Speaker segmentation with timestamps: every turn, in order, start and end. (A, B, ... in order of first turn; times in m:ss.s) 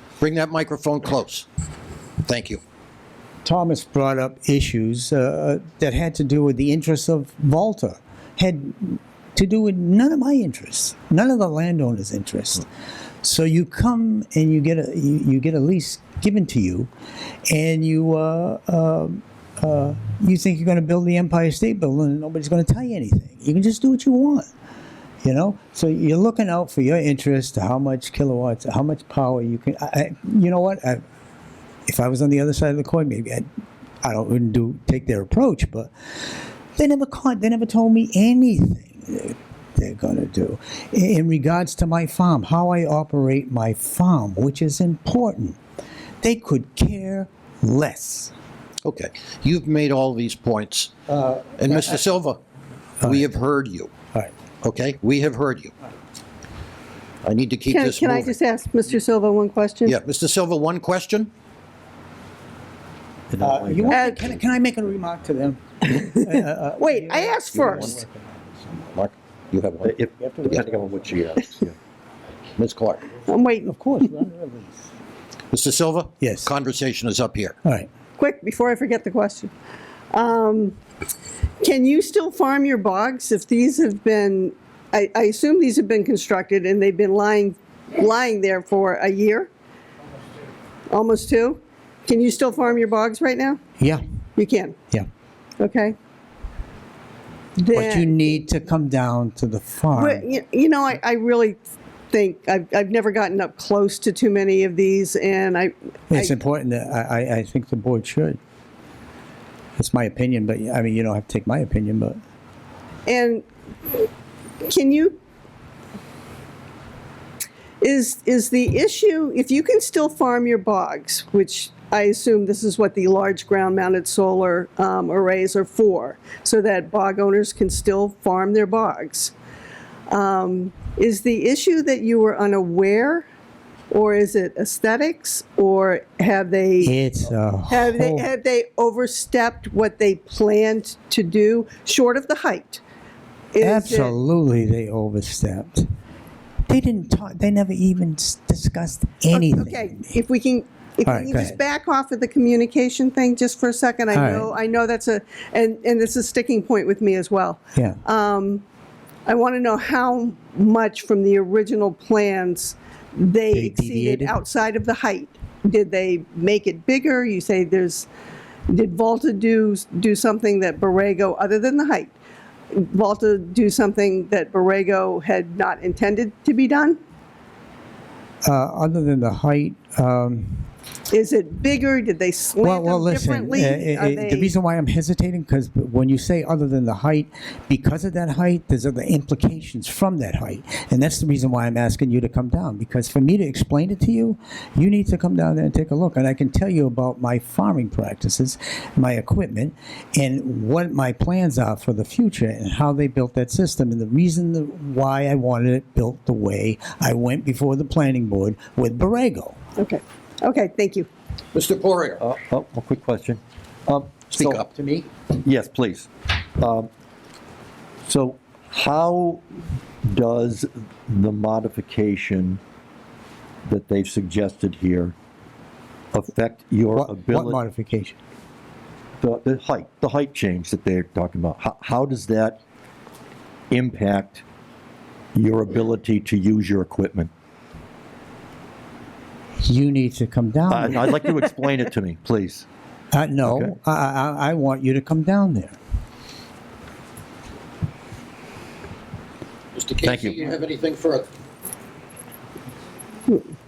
0:00.2-0:01.5 A
0:02.2-0:02.6 A
0:03.4-0:12.6 B
0:13.2-0:16.9 B
0:17.5-0:24.5 B
0:25.2-0:31.0 B
0:31.9-0:33.5 B
0:34.0-0:35.9 B
0:36.8-0:45.6 B
0:46.2-0:48.3 B
0:48.8-0:50.9 A
0:51.1-0:52.0 B
0:51.6-0:52.4 A
0:53.0-0:53.3 B
0:53.0-0:53.9 A
0:54.6-0:55.7 A
0:57.2-0:58.3 A
0:57.7-1:00.0 C
0:59.8-1:01.3 A
1:03.3-1:04.4 D
1:03.4-1:08.9 B
1:03.9-1:04.4 C
1:06.0-1:08.0 C
1:08.9-1:10.0 A
1:09.8-1:11.7 D
1:10.2-1:11.1 B
1:12.6-1:13.1 A
1:13.2-1:13.8 C
1:13.6-1:14.8 B
1:15.5-1:17.6 A
1:16.2-1:16.5 B
1:17.6-1:17.9 B
1:18.2-1:19.5 C
1:20.1-1:20.8 C
1:21.6-1:29.5 C
1:30.9-1:33.6 C
1:33.8-1:34.0 B
1:34.4-1:34.8 C
1:35.6-1:36.0 C
1:37.6-1:38.3 C
1:37.7-1:40.2 B
1:40.0-1:41.6 C
1:42.1-1:46.4 C
1:46.1-1:48.4 B
1:49.8-1:52.2 B
1:53.1-1:54.1 C
1:54.6-1:55.2 C
1:57.8-2:09.3 C
2:10.1-2:13.3 C
2:13.9-2:16.9 C
2:16.8-2:18.3 B
2:17.7-2:22.8 C
2:23.5-2:24.2 C
2:23.6-2:25.9 B
2:26.7-2:30.1 B
2:29.3-2:38.6 C
2:31.1-2:31.6 B
2:34.1-2:34.5 B
2:39.2-2:48.1 C
2:43.5-2:44.4 B
2:48.7-2:52.1 C
2:52.7-2:57.0 C
2:58.4-3:00.7 B
3:01.1-3:04.5 C
3:02.6-3:29.6 B
3:29.8-3:31.1 C
3:31.5-3:32.2 A
3:32.2-3:34.6 D
3:34.3-3:34.9 A
3:35.3-3:36.9 D
3:38.1-3:39.4 D
3:40.0-3:42.6 D
3:43.6-3:45.1 D
3:46.1-3:47.6 D
3:46.9-3:48.2 B
3:49.2-3:52.6 D
3:53.7-3:54.4 D
3:55.3-3:57.3 D
3:59.6-4:01.2 B
4:00.7-4:02.7 D
4:03.1-4:05.8 B
4:03.5-4:03.7 D
4:09.8-4:11.3 A
4:10.0-4:10.4 D